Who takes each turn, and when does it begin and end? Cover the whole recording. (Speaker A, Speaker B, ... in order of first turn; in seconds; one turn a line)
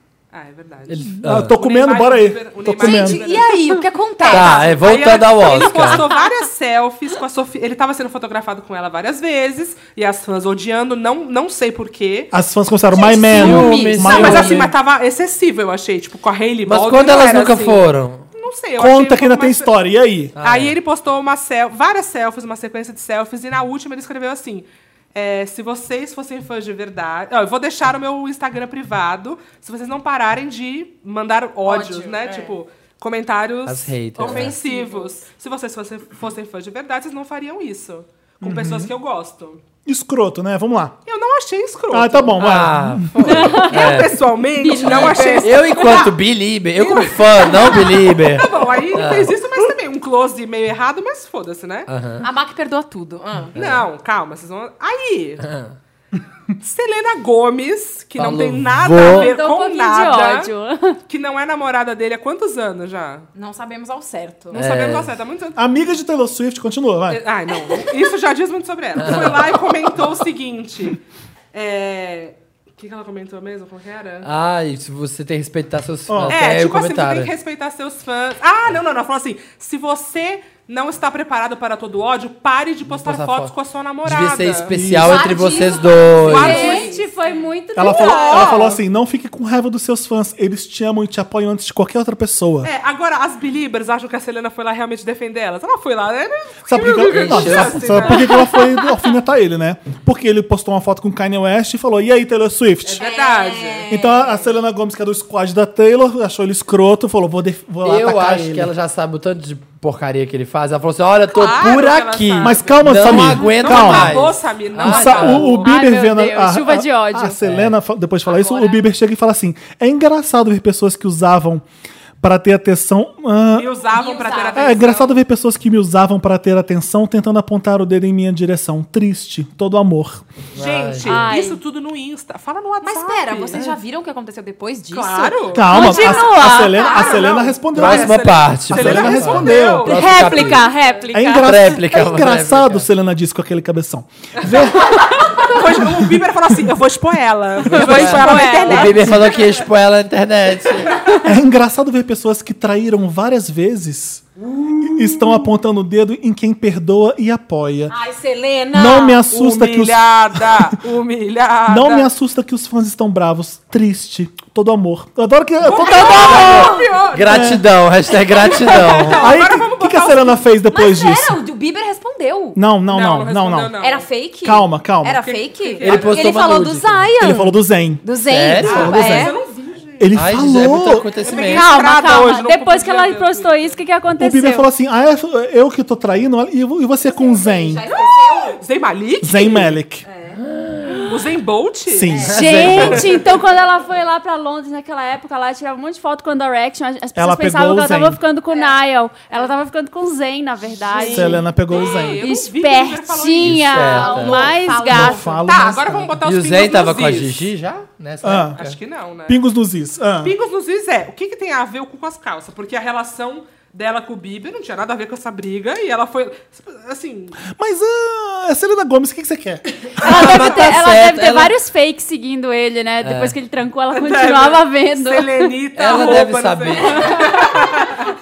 Speaker A: 0.3-3.6
Speaker B: 0.9-1.5
Speaker C: 1.2-3.3
Speaker D: 2.8-5.2
Speaker A: 4.2-12.3
Speaker B: 4.2-6.1
Speaker C: 12.3-14.7
Speaker D: 12.9-14.6
Speaker B: 13.3-14.7
Speaker A: 14.0-19.7
Speaker B: 16.7-18.2
Speaker C: 18.8-20.3
Speaker B: 20.4-20.8
Speaker A: 20.4-39.6
Speaker D: 31.6-32.6
Speaker B: 33.6-34.6
Speaker D: 34.2-35.2
Speaker C: 38.4-38.9
Speaker C: 39.9-41.0
Speaker A: 41.0-42.7
Speaker C: 41.9-43.2
Speaker B: 42.4-49.3
Speaker E: 43.2-44.0
Speaker A: 43.2-46.1
Speaker D: 44.6-45.5
Speaker E: 44.8-46.0
Speaker A: 46.8-51.9
Speaker B: 51.9-52.2
Speaker D: 52.2-53.5
Speaker B: 53.5-53.8
Speaker A: 53.5-55.5
Speaker B: 55.4-55.7
Speaker A: 56.6-60.5
Speaker B: 58.2-59.3
Speaker E: 59.1-61.0
Speaker A: 61.1-63.3
Speaker D: 63.3-64.6
Speaker A: 64.5-65.6
Speaker B: 64.5-65.1
Speaker C: 65.5-67.2
Speaker A: 67.1-71.0
Speaker B: 69.0-69.5
Speaker A: 71.5-74.3
Speaker B: 74.2-77.3
Speaker C: 76.1-76.4
Speaker A: 76.3-84.7
Speaker B: 82.9-83.5
Speaker B: 84.0-86.8
Speaker C: 84.7-85.3
Speaker D: 85.0-87.1
Speaker A: 86.2-86.9
Speaker E: 86.3-88.6
Speaker C: 87.8-92.7
Speaker D: 87.9-88.5
Speaker A: 88.0-88.8
Speaker A: 92.6-99.0
Speaker C: 96.7-103.0
Speaker B: 96.8-98.2
Speaker A: 102.8-104.0
Speaker D: 103.0-104.4
Speaker C: 103.9-108.7
Speaker B: 107.8-115.6
Speaker A: 111.3-115.7
Speaker C: 112.4-121.6
Speaker E: 115.5-117.4
Speaker B: 117.4-117.7
Speaker D: 118.5-118.7
Speaker C: 122.2-123.8
Speaker A: 123.5-125.2
Speaker D: 123.9-124.8
Speaker C: 124.5-130.2
Speaker A: 130.5-133.6
Speaker B: 130.6-131.3
Speaker E: 131.0-131.6
Speaker D: 132.8-137.3
Speaker A: 134.9-140.3
Speaker C: 135.5-140.0
Speaker E: 135.8-136.3
Speaker B: 137.7-140.7
Speaker D: 139.9-141.4
Speaker C: 141.1-145.1
Speaker B: 141.3-142.9
Speaker A: 145.3-149.6
Speaker C: 145.8-146.1
Speaker B: 147.6-151.1
Speaker E: 147.8-148.9
Speaker D: 147.8-149.1
Speaker C: 151.2-154.3
Speaker C: 154.8-157.9
Speaker D: 157.9-159.2
Speaker C: 158.7-160.7
Speaker A: 159.3-162.1
Speaker C: 161.7-166.7
Speaker A: 165.6-167.6
Speaker D: 165.8-166.9
Speaker B: 166.2-169.2
Speaker C: 167.2-167.7
Speaker A: 168.3-170.4
Speaker C: 169.1-171.4
Speaker D: 170.7-172.6
Speaker C: 172.6-173.7
Speaker A: 172.9-174.1
Speaker D: 173.8-179.4
Speaker C: 174.4-175.2
Speaker A: 175.2-176.5
Speaker B: 175.8-177.1
Speaker C: 177.2-178.0
Speaker B: 178.2-179.2
Speaker C: 178.6-179.3
Speaker A: 178.6-180.1
Speaker C: 180.0-181.1
Speaker B: 180.1-181.7
Speaker A: 180.9-183.8
Speaker D: 181.4-182.1
Speaker E: 181.4-184.7
Speaker C: 184.2-187.8
Speaker D: 187.0-188.6
Speaker A: 187.8-189.7
Speaker C: 189.2-190.0
Speaker D: 190.0-190.4
Speaker B: 190.3-191.1
Speaker A: 191.1-193.2
Speaker C: 191.9-192.8
Speaker D: 192.1-192.3
Speaker E: 192.2-205.3
Speaker B: 192.3-193.1
Speaker C: 197.1-198.2
Speaker D: 198.5-198.7
Speaker A: 200.9-204.1
Speaker C: 201.0-202.2
Speaker D: 201.0-201.2
Speaker B: 203.4-204.5
Speaker D: 203.8-205.8
Speaker C: 204.8-206.1
Speaker A: 205.4-207.5
Speaker B: 206.2-208.8
Speaker C: 208.2-208.6
Speaker A: 208.5-209.4
Speaker C: 209.3-210.3
Speaker A: 210.2-217.4
Speaker C: 217.5-219.6
Speaker B: 219.9-221.6
Speaker E: 220.0-226.2
Speaker A: 220.1-220.7
Speaker B: 223.0-223.3
Speaker A: 223.9-228.0
Speaker B: 225.8-227.2
Speaker E: 226.9-227.5